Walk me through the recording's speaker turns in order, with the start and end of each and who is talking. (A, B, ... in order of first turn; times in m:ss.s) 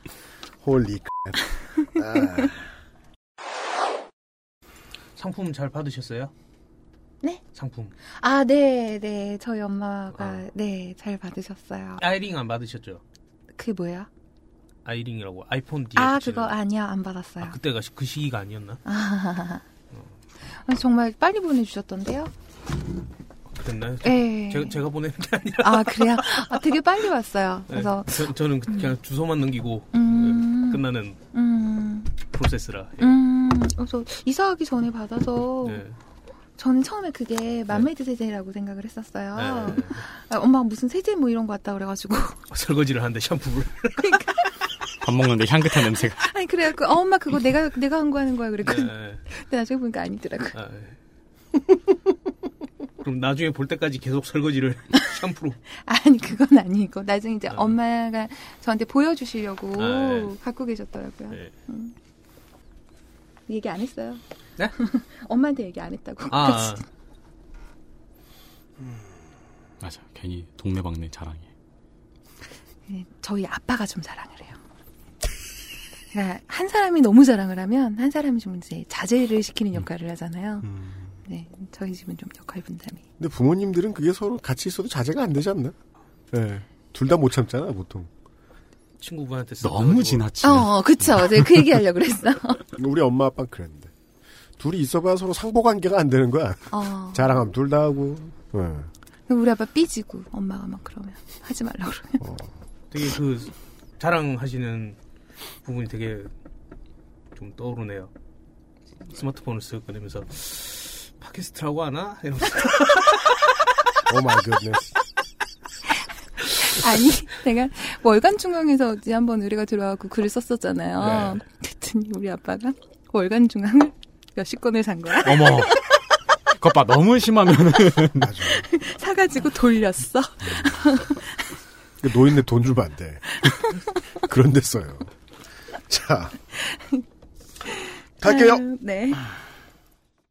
0:00.6-0:01.4 A
0:02.0-0:02.5 A
0:05.2-0:06.3 B
0:07.5-0:07.9 B
0:08.2-0:12.0 C
0:10.1-0:10.4 B
0:12.0-0:13.0 B
0:13.6-0:14.1 C
0:14.8-0:16.6 B
0:16.0-0:17.6 C
0:17.4-0:18.8 B
0:18.8-0:19.6 C
0:20.6-0:22.3 C
0:23.5-0:26.6 B
0:24.0-0:24.8 C
0:25.6-0:28.9 C
0:27.7-0:31.2 B
0:29.9-0:32.1 C
0:32.2-0:33.1 B
0:33.0-0:35.8 C
0:35.6-0:36.0 B
0:36.6-0:42.4 C
0:39.4-0:40.0 B
0:42.5-0:44.1 B
0:44.0-0:44.4 C
0:45.0-0:46.3 D
0:45.7-0:50.6 C
0:48.6-0:49.2 B
0:50.5-0:50.9 B
0:53.0-0:55.6 B
0:55.8-1:01.9 C
0:57.5-0:57.8 B
0:59.8-1:00.4 B
1:03.5-1:04.2 C
1:04.8-1:06.8 C
1:06.3-1:06.8 B
1:09.8-1:11.5 D
1:12.9-1:14.6 C
1:16.1-1:20.7 C
1:20.6-1:21.1 A
1:21.3-1:23.0 C
1:23.2-1:25.7 A
1:26.3-1:28.1 A
1:29.0-1:30.4 B
1:29.6-1:31.7 D
1:30.4-1:32.6 C
1:32.8-1:33.9 A
1:34.6-1:38.9 A
1:36.7-1:37.4 C
1:39.3-1:42.2 C
1:42.2-1:42.5 A
1:42.9-1:45.0 B
1:45.6-1:46.3 B
1:47.4-1:48.1 B
1:49.1-1:53.2 B
1:54.1-1:54.9 A
1:56.6-2:05.7 C
2:01.0-2:01.3 D
2:05.2-2:05.7 D
2:06.6-2:08.3 D
2:08.2-2:08.6 A
2:08.5-2:11.3 C
2:12.0-2:13.3 A
2:14.2-2:15.1 A
2:15.9-2:16.4 A
2:16.6-2:17.0 C
2:17.7-2:19.2 C
2:18.2-2:18.6 A